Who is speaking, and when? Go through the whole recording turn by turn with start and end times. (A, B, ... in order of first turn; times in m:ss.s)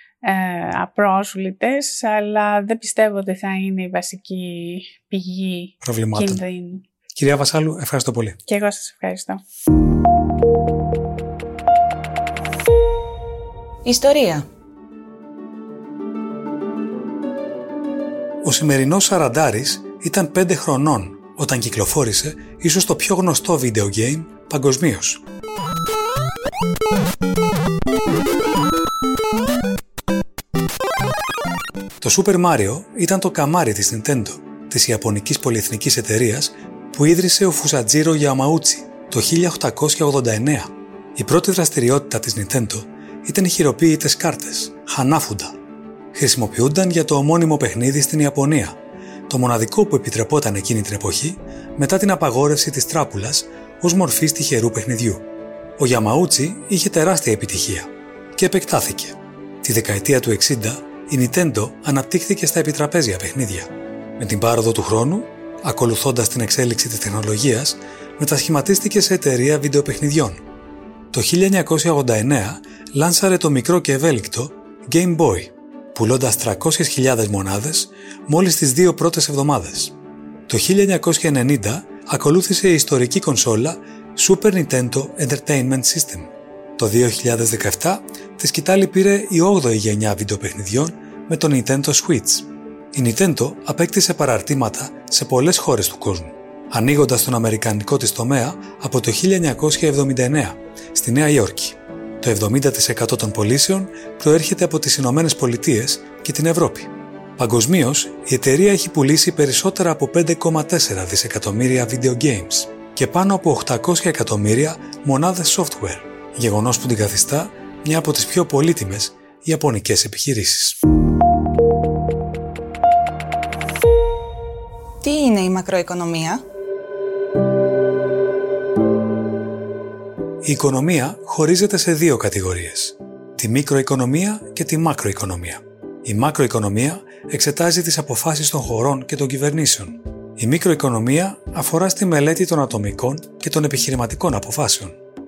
0:00.2-0:06.8 A
0:05.8-0:06.4 B
0:07.2-0:08.4 B
0:08.5-0:09.4 A
0:13.8-0:14.4 C
0:18.4-0:25.2 B
0:32.0-0:45.6 B
0:46.1-0:48.8 B
0:49.3-0:55.2 B
0:55.8-1:10.4 B
1:11.1-1:19.9 B
1:20.5-2:00.8 B
2:05.0-2:06.4 C
2:10.4-2:25.0 B